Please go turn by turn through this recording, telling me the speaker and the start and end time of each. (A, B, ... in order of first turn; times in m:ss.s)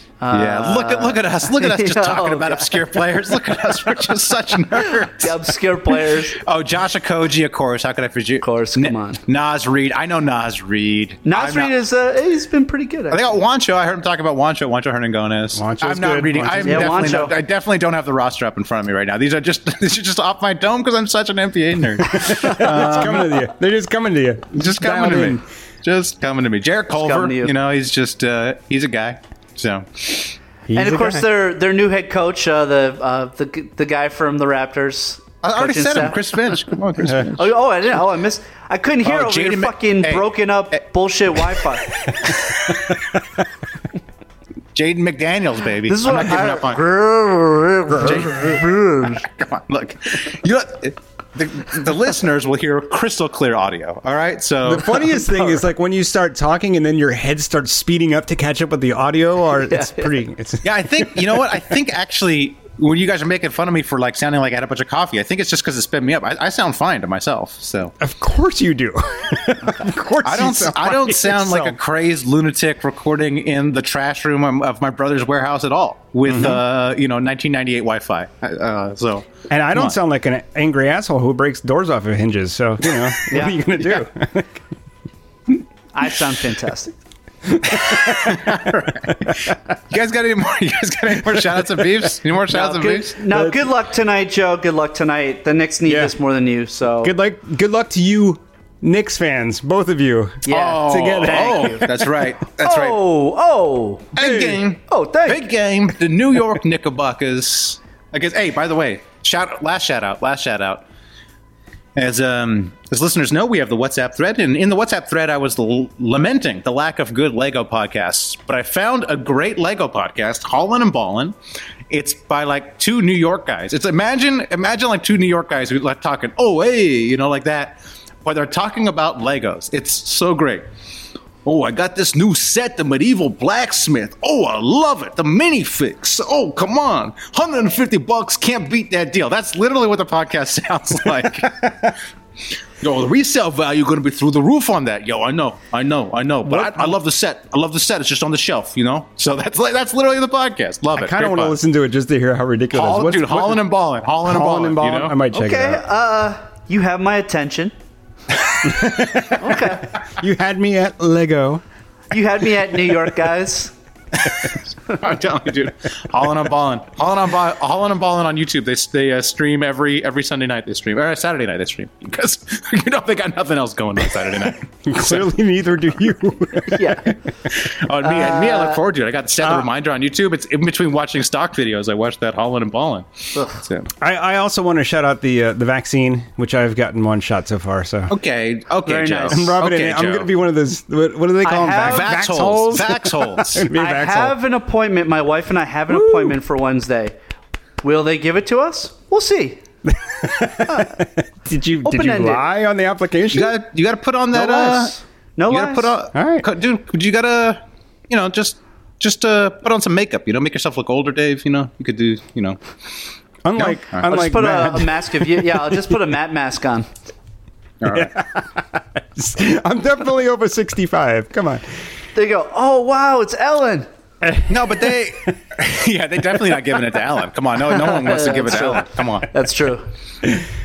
0:00.2-0:03.1 A
0:00.3-0:05.4 B
0:04.8-0:06.4 A
0:05.9-0:11.7 B
0:08.4-0:09.2 A
0:11.2-0:13.3 A
0:13.1-0:23.5 B
0:15.5-0:17.3 C
0:16.6-0:17.4 A
0:22.1-0:25.4 C
0:24.5-0:30.4 B
0:27.0-0:27.5 A
0:30.7-0:31.3 C
0:30.7-0:41.9 A
0:35.4-0:37.5 B
0:39.0-0:40.8 B
0:42.2-0:42.8 B
0:44.8-0:46.8 B
0:45.9-0:49.2 A
0:48.0-0:55.6 B
0:54.6-1:01.6 C
0:59.7-1:00.1 A
1:00.6-1:08.0 B
1:08.0-1:11.8 C
1:10.2-1:20.0 B
1:16.3-1:16.6 C
1:19.5-1:24.6 C
1:23.3-1:24.0 A
1:26.0-1:27.0 A
1:27.5-1:29.5 C
1:27.7-1:33.2 B
1:32.5-1:37.1 A
1:35.9-1:36.1 C
1:37.0-1:41.7 C
1:40.4-1:44.1 A
1:40.5-1:43.0 B
1:44.2-1:50.8 B
1:44.2-1:44.6 C
1:44.9-1:45.4 A
1:52.0-2:01.4 B
2:01.9-2:10.7 B
2:11.4-2:22.0 B
2:22.8-2:31.6 B
2:26.4-2:27.0 C
2:30.9-2:33.6 C
2:32.7-2:35.2 B
2:34.2-2:35.8 C
2:35.3-2:37.7 A
2:38.6-2:41.6 C
2:39.4-2:39.9 A
2:42.1-2:43.7 A
2:44.2-2:55.3 B
2:54.9-2:57.1 C
2:56.7-2:57.1 A
2:57.5-3:03.9 B
2:58.0-2:58.8 A
3:03.4-3:03.6 A
3:04.0-3:08.1 C
3:08.1-3:10.3 B
3:08.9-3:09.5 A
3:09.3-3:14.4 C
3:11.4-3:12.2 A
3:11.8-3:13.7 B
3:13.7-3:17.1 A
3:15.9-3:16.4 C
3:17.8-3:19.6 A
3:19.9-3:23.6 C
3:20.6-3:20.9 A
3:21.8-3:22.4 A
3:23.3-3:25.0 B
3:24.3-3:25.9 A
3:25.5-3:32.6 B
3:26.1-3:26.5 C
3:33.4-3:35.9 C
3:33.6-3:34.1 B
3:34.0-3:36.9 A
3:37.8-3:38.1 B
3:37.9-3:41.6 C
3:42.2-3:43.9 A
3:44.2-3:45.4 C
3:44.5-3:49.3 B
3:47.9-3:49.9 A